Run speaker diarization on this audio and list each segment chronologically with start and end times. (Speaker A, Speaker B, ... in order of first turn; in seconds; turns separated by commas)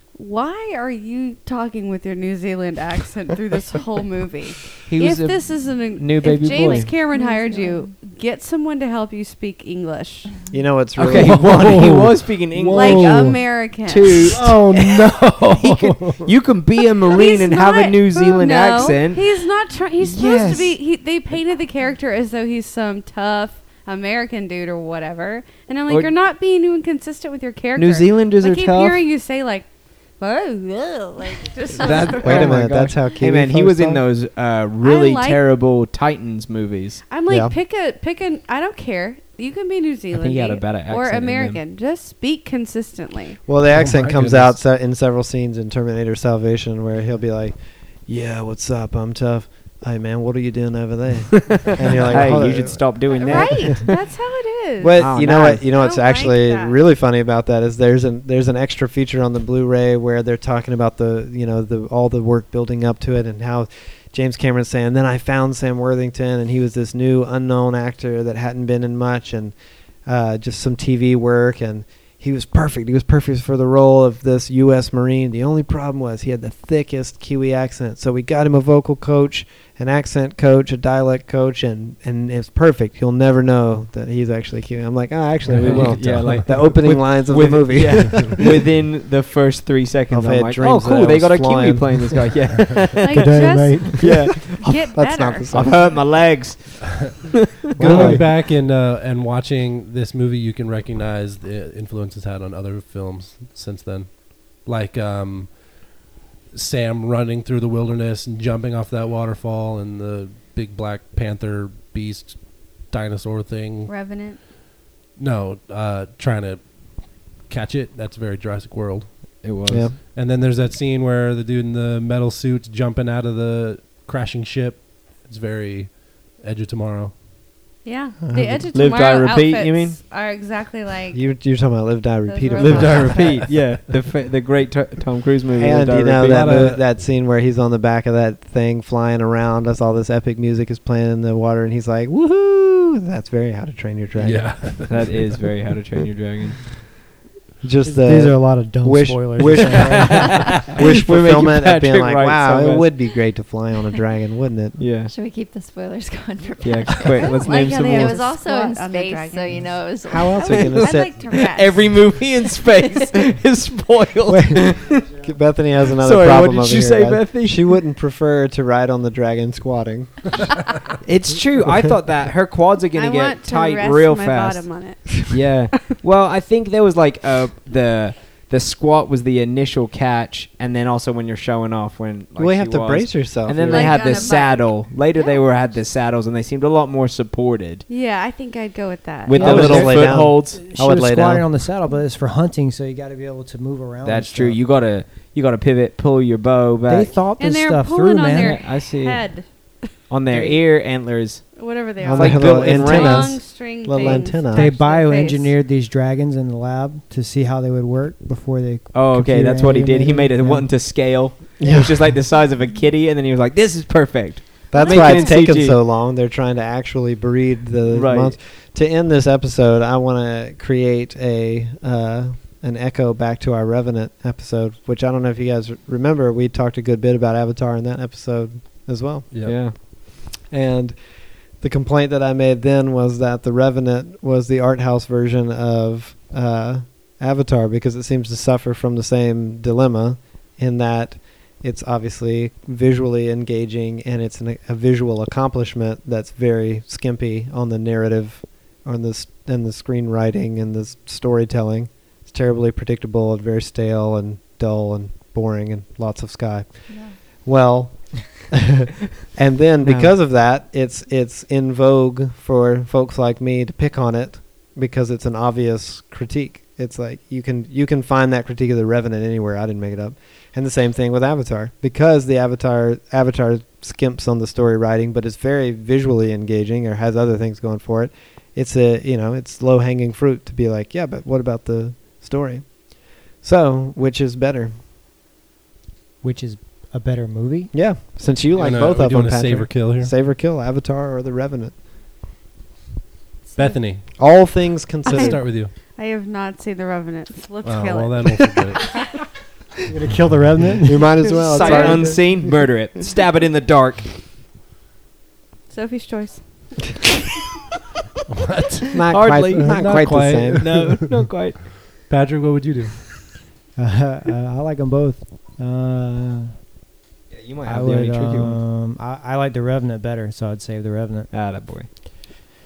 Speaker A: 0.1-10.3, Speaker B: 4.9-6.9, Speaker C: 6.4-8.0, Speaker D: 10.5-11.9, Speaker B: 11.0-13.3, Speaker E: 11.2-13.7, Speaker A: 12.7-14.5, Speaker B: 13.8-14.6, Speaker E: 14.3-16.3, Speaker B: 15.7-19.3, Speaker A: 17.0-32.6, Speaker B: 20.0-20.8, Speaker B: 27.8-29.0, Speaker B: 31.8-37.0, Speaker D: 32.0-34.0, Speaker A: 34.8-35.4, Speaker A: 37.1-43.4, Speaker D: 37.3-37.5, Speaker B: 40.1-41.6, Speaker D: 43.5-53.9, Speaker E: 43.7-44.6, Speaker B: 51.5-53.9, Speaker E: 51.9-52.5, Speaker A: 53.1-56.9, Speaker D: 54.8-88.7, Speaker B: 55.0-55.7, Speaker E: 85.5-86.4, Speaker B: 85.5-94.7, Speaker D: 90.1-92.2, Speaker A: 93.0-95.5, Speaker F: 93.2-94.2, Speaker D: 94.9-95.8, Speaker B: 95.5-97.2, Speaker E: 97.8-106.0, Speaker D: 97.8-98.2, Speaker F: 97.8-98.2, Speaker E: 106.5-114.0, Speaker A: 113.9-114.4, Speaker E: 115.2-119.5, Speaker B: 119.4-119.9, Speaker D: 119.7-120.0, Speaker E: 120.1-127.2, Speaker A: 127.8-131.2, Speaker D: 128.2-128.7, Speaker B: 128.7-130.0, Speaker D: 131.1-133.3, Speaker A: 132.2-133.4, Speaker B: 132.6-136.8, Speaker E: 132.8-133.7, Speaker D: 135.6-144.9, Speaker E: 136.2-136.8, Speaker E: 144.2-145.4, Speaker B: 144.8-146.6, Speaker D: 147.6-154.9, Speaker F: 147.8-150.6, Speaker B: 149.8-152.9, Speaker B: 154.8-155.1, Speaker C: 155.0-163.1, Speaker B: 156.6-158.2, Speaker A: 157.1-161.8, Speaker D: 160.1-161.2, Speaker B: 160.7-165.1, Speaker D: 164.3-170.4, Speaker B: 165.9-167.8, Speaker B: 171.0-187.9, Speaker A: 172.9-175.1, Speaker D: 182.4-183.9, Speaker A: 183.7-184.8, Speaker C: 183.8-185.9, Speaker A: 187.9-189.7, Speaker B: 189.2-190.6, Speaker D: 189.3-191.5, Speaker F: 189.4-194.6, Speaker B: 194.0-197.2, Speaker F: 196.9-198.6, Speaker A: 197.4-199.8, Speaker B: 198.4-199.5, Speaker B: 200.1-203.4, Speaker A: 201.5-205.5, Speaker D: 202.0-204.7, Speaker F: 204.5-210.7, Speaker B: 208.9-215.8, Speaker D: 211.6-212.2, Speaker D: 214.7-258.6, Speaker C: 214.8-215.4, Speaker B: 217.9-218.4, Speaker E: 229.3-229.6, Speaker B: 229.4-229.8, Speaker C: 256.9-257.3, Speaker D: 259.2-284.8, Speaker F: 286.2-287.7, Speaker D: 287.7-291.8, Speaker E: 288.6-290.1, Speaker A: 293.5-294.0, Speaker E: 293.6-295.7, Speaker D: 294.1-295.6, Speaker A: 295.1-298.6, Speaker E: 297.6-299.0, Speaker F: 299.9-301.3, Speaker D: 300.9-302.5, Speaker A: 301.2-302.0, Speaker B: 301.3-304.1, Speaker A: 305.7-306.7, Speaker E: 308.3-313.2, Speaker D: 308.9-310.9, Speaker B: 309.1-311.9, Speaker F: 313.8-316.5, Speaker B: 317.3-318.6, Speaker F: 317.6-321.3, Speaker B: 321.3-321.9